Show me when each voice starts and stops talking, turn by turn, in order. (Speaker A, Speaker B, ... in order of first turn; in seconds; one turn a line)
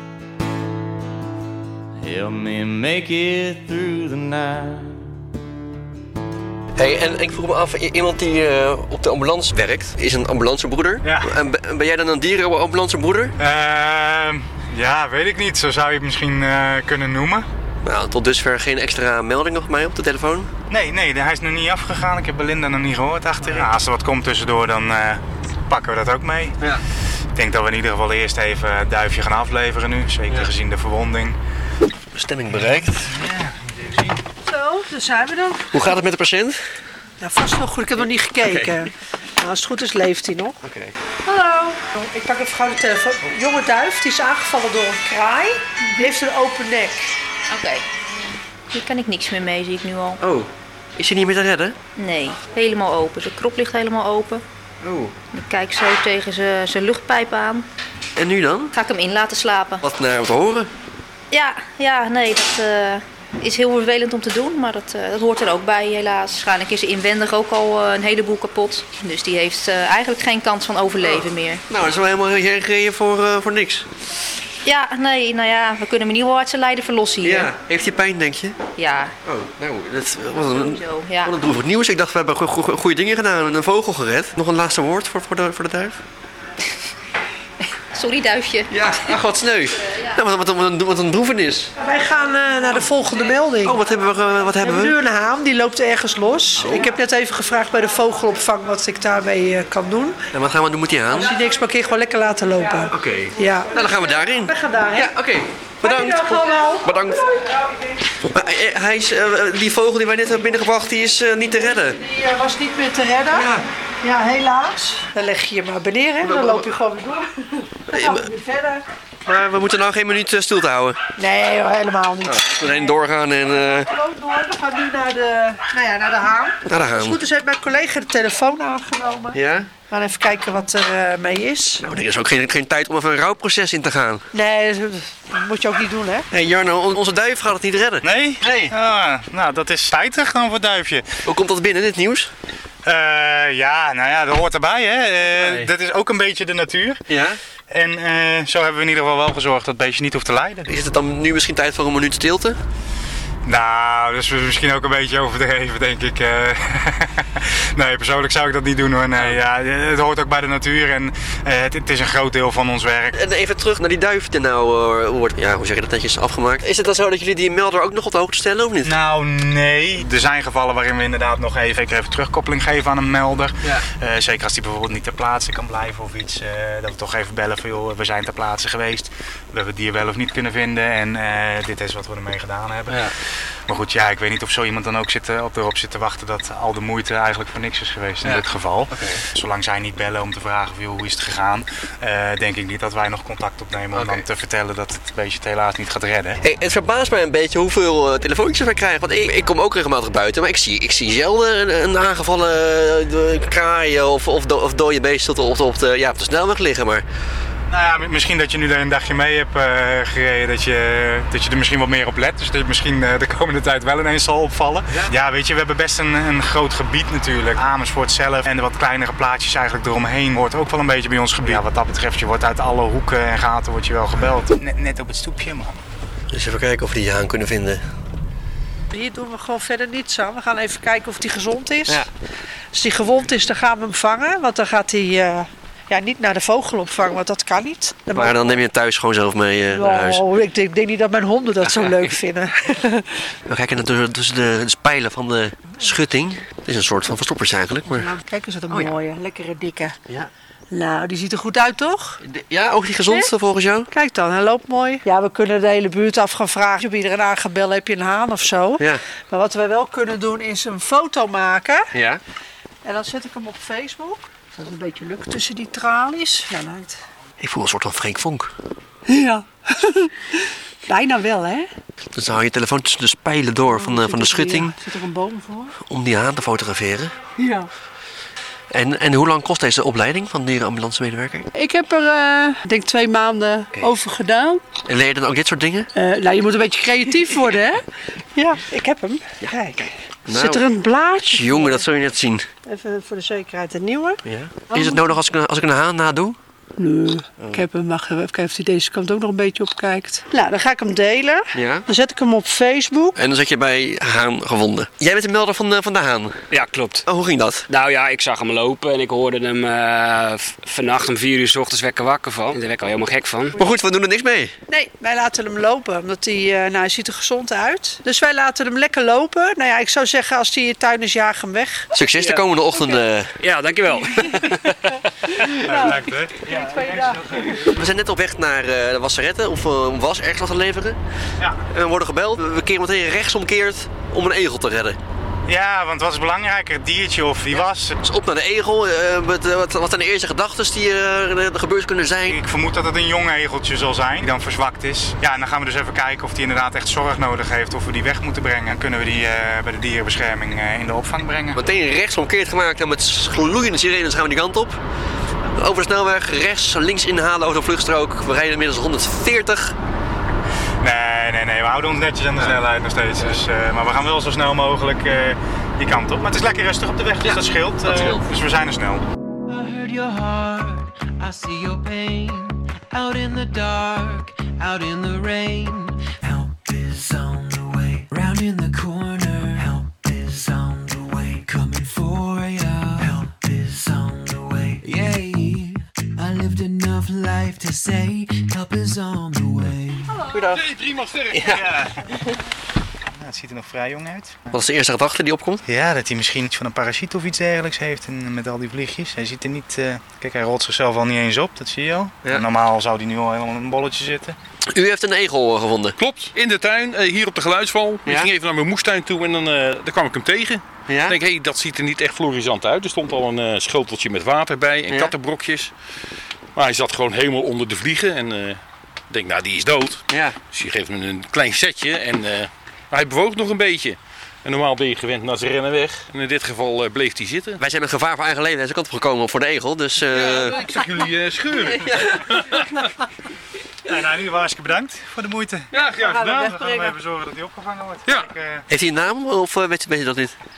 Speaker A: 2.0-5.2
Speaker B: 6.8-13.3
Speaker C: 11.0-11.3
Speaker C: 13.4-17.5
Speaker B: 17.8-20.5
Speaker C: 20.7-26.6
Speaker B: 23.4-23.7
Speaker C: 27.4-31.4
Speaker B: 32.1-33.1
Speaker C: 32.5-34.2
Speaker D: 34.4-35.9
Speaker B: 35.7-36.6
Speaker D: 37.2-40.6
Speaker B: 38.4-38.8
Speaker B: 40.6-40.9
Speaker D: 41.2-47.2
Speaker E: 47.5-47.8
Speaker E: 48.7-50.2
Speaker B: 50.2-51.8
Speaker E: 52.0-54.4
Speaker B: 54.8-55.1
Speaker E: 55.3-57.6
Speaker B: 58.2-58.7
Speaker E: 58.7-59.8
Speaker B: 59.8-60.7
Speaker E: 61.3-71.6
Speaker B: 71.0-73.9
Speaker E: 74.7-77.5
Speaker B: 77.2-78.6
Speaker E: 78.8-79.1
Speaker B: 79.2-86.0
Speaker E: 80.4-81.3
Speaker E: 87.9-88.7
Speaker B: 88.7-91.7
Speaker D: 91.8-93.8
Speaker B: 93.6-95.0
Speaker D: 94.6-100.2
Speaker B: 96.6-96.9
Speaker B: 100.3-101.3
Speaker D: 101.1-105.1
Speaker B: 102.9-107.3
Speaker D: 105.8-107.5
Speaker B: 108.2-112.0
Speaker D: 111.9-113.5
Speaker B: 113.3-113.7
Speaker D: 114.0-118.8
Speaker B: 116.2-116.7
Speaker B: 117.9-118.3
Speaker B: 119.2-121.0
Speaker D: 121.2-123.0
Speaker B: 122.2-123.9
Speaker D: 123.8-131.8
Speaker B: 126.7-127.2
Speaker B: 129.3-129.7
Speaker B: 131.8-134.3
Speaker D: 134.3-136.3
Speaker B: 136.3-138.7
Speaker C: 138.0-141.1
Speaker B: 141.2-142.3
Speaker C: 142.8-147.0
Speaker B: 145.3-145.7
Speaker B: 147.1-147.4
Speaker C: 147.7-150.7
Speaker B: 150.7-152.6
Speaker C: 153.4-163.2
Speaker B: 163.1-168.9
Speaker C: 168.8-183.1
Speaker B: 182.9-183.2
Speaker C: 183.7-196.4
Speaker B: 188.2-189.2
Speaker B: 193.9-194.2
Speaker B: 196.4-207.1
Speaker C: 207.7-225.8
Speaker B: 226.3-227.8
Speaker D: 228.9-232.1
Speaker D: 232.7-238.6
Speaker B: 238.1-240.2
Speaker D: 239.7-243.3
Speaker B: 241.7-242.0
Speaker B: 243.5-248.1
Speaker D: 247.9-250.0
Speaker B: 248.7-249.0
Speaker D: 250.7-252.2
Speaker B: 252.2-253.9
Speaker D: 253.9-261.9
Speaker B: 261.9-262.2
Speaker D: 262.8-267.0
Speaker B: 267.4-268.5
Speaker D: 269.1-271.7
Speaker B: 272.1-274.8
Speaker D: 273.7-275.8
Speaker B: 275.8-277.1
Speaker D: 277.4-277.7
Speaker B: 278.7-281.5
Speaker D: 281.6-284.6
Speaker B: 284.9-285.9
Speaker D: 285.9-291.8
Speaker B: 290.3-290.6
Speaker B: 291.2-292.5
Speaker D: 292.6-295.1
Speaker B: 294.2-296.4
Speaker D: 296.8-303.2
Speaker B: 301.5-301.9
Speaker B: 303.2-306.5
Speaker F: 306.5-307.0
Speaker B: 307.1-307.7
Speaker F: 307.7-313.6
Speaker B: 313.5-314.5
Speaker D: 314.7-321.9
Speaker B: 321.9-323.4
Speaker F: 322.2-325.1
Speaker C: 325.5-327.7
Speaker D: 325.5-327.7
Speaker B: 327.6-331.0
Speaker B: 331.7-335.0
Speaker C: 335.5-338.0
Speaker B: 337.6-342.4
Speaker C: 342.3-351.6
Speaker B: 351.5-354.8
Speaker B: 355.6-359.8
Speaker C: 360.8-369.0
Speaker B: 367.2-368.3
Speaker G: 369.5-390.3
Speaker B: 390.3-390.6
Speaker H: 390.5-391.7
Speaker B: 391.3-391.6
Speaker C: 391.4-392.2
Speaker C: 393.1-394.4
Speaker B: 394.5-395.6
Speaker C: 395.7-404.4
Speaker B: 404.7-406.0
Speaker H: 406.0-415.7
Speaker B: 408.1-408.3
Speaker B: 410.9-411.2
Speaker B: 414.9-415.1
Speaker H: 416.6-427.6
Speaker B: 420.1-420.4
Speaker B: 427.6-430.6
Speaker H: 430.1-432.9
Speaker B: 431.8-432.2
Speaker C: 433.9-438.6
Speaker H: 435.7-436.3
Speaker B: 438.7-440.4